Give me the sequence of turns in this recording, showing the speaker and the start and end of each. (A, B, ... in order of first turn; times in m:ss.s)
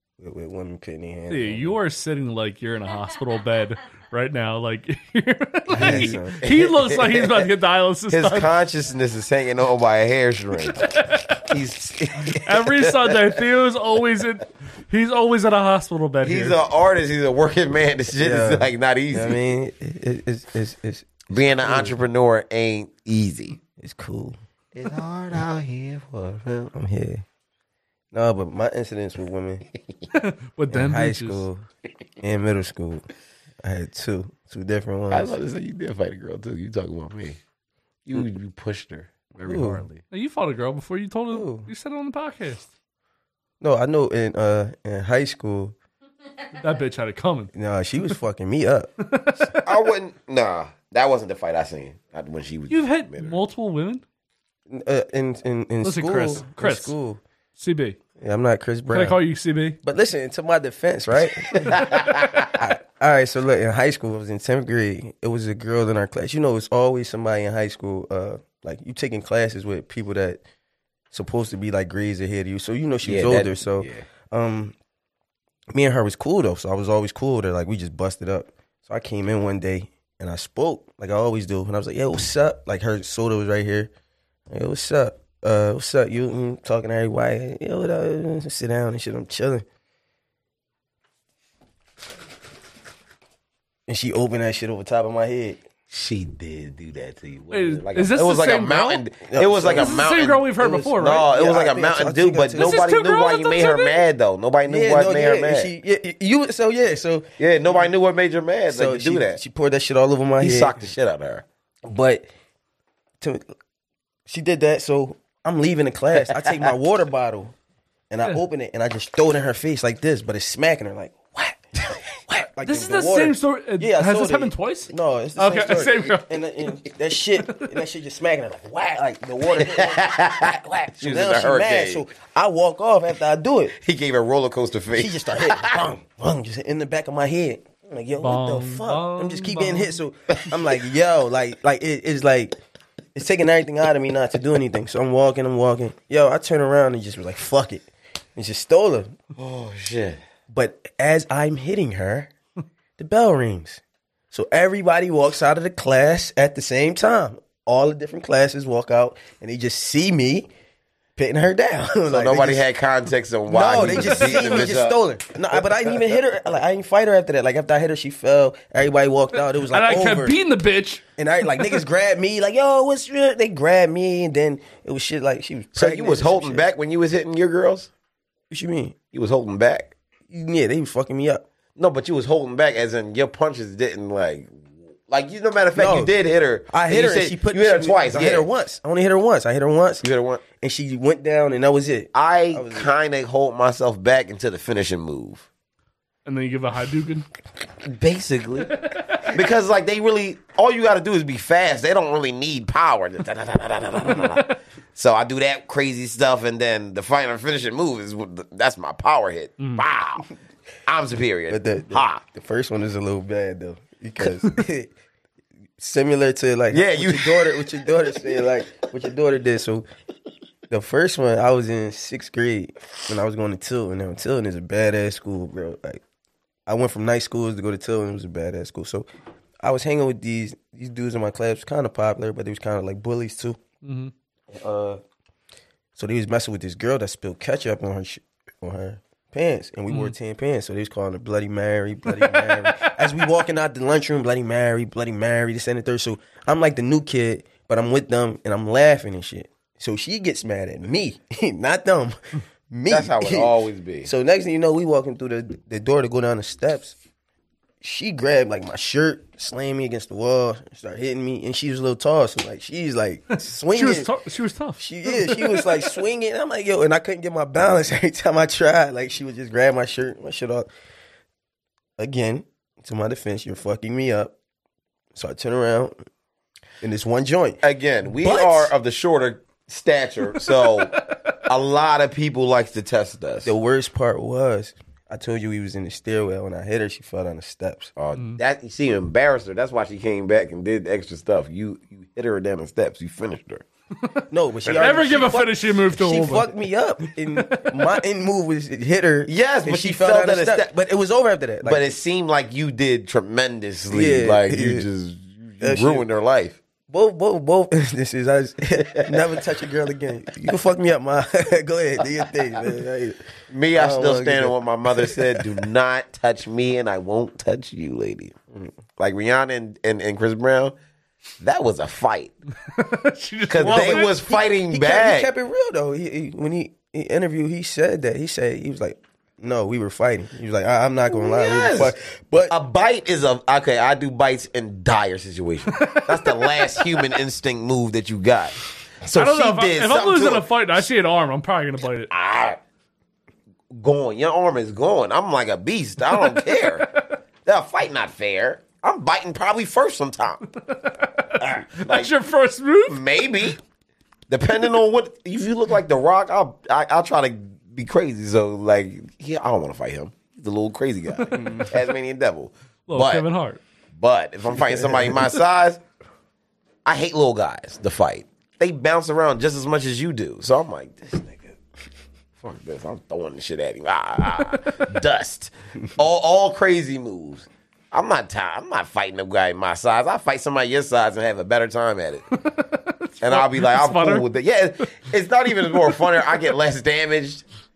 0:00.2-0:01.8 A
0:01.3-0:08.5 B
0:05.7-0:06.4 A
0:05.7-0:07.5 C
0:08.1-0:10.9 C
0:10.7-0:11.5 B
0:11.4-0:13.4 C
0:12.3-0:16.6 B
0:16.2-0:19.4 C
0:18.2-0:22.0 A
0:21.3-0:23.6 C
0:23.8-0:24.4 A
0:24.7-0:26.7 C
0:26.7-0:27.2 A
0:28.1-0:29.7 A
0:30.1-0:31.5 B
0:30.7-0:31.6 A
0:32.2-0:33.0 A
0:33.6-0:35.4 A
0:35.1-0:37.4 C
0:38.1-0:40.0 C
0:39.5-0:39.8 A
0:40.1-0:42.7 B
0:41.3-0:41.7 A
0:43.6-0:45.8 A
0:46.6-0:47.5 B
0:47.5-0:48.9 A
0:49.0-0:49.6 B
0:49.6-0:53.4 C
0:52.7-0:54.0 B
0:54.7-0:57.2 A
0:55.8-0:57.0 B
0:57.6-0:58.0 B
0:58.2-0:59.2 A
0:58.9-0:59.8 B
0:59.8-1:01.9 A
1:01.6-1:02.5 C
1:02.5-1:10.4 A
1:11.1-1:14.8 A
1:13.0-1:14.0 C
1:15.7-1:23.9 A
1:24.5-1:29.6 A
1:33.9-1:35.6 A
1:35.9-1:45.7 C
1:37.5-1:39.0 B
1:39.3-1:40.1 A
1:39.8-1:41.3 B
1:40.6-1:42.8 A
1:42.6-1:44.0 B
1:44.7-1:47.3 A
1:47.4-1:49.4 C
1:48.7-1:50.8 A
1:50.4-1:51.4 C
1:51.8-1:52.3 A
1:53.2-1:53.5 A
1:54.3-1:57.6 A
1:58.1-2:01.6 A
2:02.3-2:10.2 A
2:02.6-2:06.4 B
2:09.6-2:12.0 C
2:11.0-2:13.8 A
2:13.8-2:15.9 C
2:14.9-2:22.6 A
2:18.2-2:20.0 B
2:23.2-2:29.2 A
2:29.4-2:30.2 C
2:30.5-2:32.3 A
2:33.0-2:40.5 A
2:41.2-2:42.7 A
2:42.1-2:45.0 C
2:43.5-2:50.4 A
2:44.0-2:44.5 B
2:45.5-2:46.2 C
2:49.7-2:51.0 B
2:51.2-2:56.7 A
2:55.7-2:57.9 C
2:58.5-2:59.0 A
2:59.1-2:59.9 C
3:00.3-3:01.4 A
3:01.8-3:04.6 C
3:05.1-3:08.5 C
3:05.8-3:06.1 A
3:06.7-3:10.0 A
3:10.0-3:10.4 C
3:10.6-3:12.9 A
3:12.1-3:15.5 C
3:16.3-3:17.3 B
3:17.8-3:30.3 C
3:18.8-3:19.3 B
3:29.6-3:29.8 B
3:30.9-3:32.2 C
3:31.5-3:34.9 A
3:35.8-3:39.9 A
3:36.7-3:38.1 C
3:40.7-3:46.0 A
3:46.7-3:49.1 A
3:49.6-3:53.6 A
3:53.8-3:54.1 B
3:54.5-3:55.0 A
3:56.0-4:12.2 A
3:59.9-4:00.2 B
4:02.5-4:02.7 B
4:12.7-4:17.0 A
4:12.9-4:14.1 C
4:17.8-4:24.1 A
4:23.7-4:25.9 B
4:24.8-4:30.7 A
4:32.0-4:34.4 A
4:35.2-4:36.0 A
4:36.8-4:37.6 A
4:37.6-4:43.5 C
4:38.2-4:38.7 A
4:40.8-4:41.2 B
4:43.4-4:47.9 A
4:48.0-4:53.6 C
4:54.3-5:01.8 A
4:54.8-4:58.0 B
4:59.3-5:00.7 C
5:01.6-5:06.6 C
5:03.9-5:04.9 A
5:05.6-5:06.1 A
5:06.9-5:15.5 A
5:08.8-5:09.2 C
5:13.5-5:18.4 C
5:19.0-5:20.8 C
5:21.4-5:22.3 C
5:22.7-5:24.2 B
5:23.5-5:25.3 C
5:23.6-5:32.6 A
5:31.1-5:40.5 C
5:35.8-5:37.0 B
5:39.1-5:42.1 B
5:42.1-5:42.6 C
5:43.7-5:46.9 C
5:46.2-5:47.0 B
5:47.4-5:50.4 C
5:50.7-5:53.5 B
5:51.4-5:52.1 C
5:52.9-5:53.6 C
5:54.3-6:03.3 C
6:01.4-6:01.7 A
6:02.9-6:03.6 B
6:04.0-6:05.8 C
6:06.9-6:11.6 C
6:12.4-6:22.2 C
6:22.4-6:24.3 B
6:23.2-6:27.4 C
6:25.6-6:26.4 B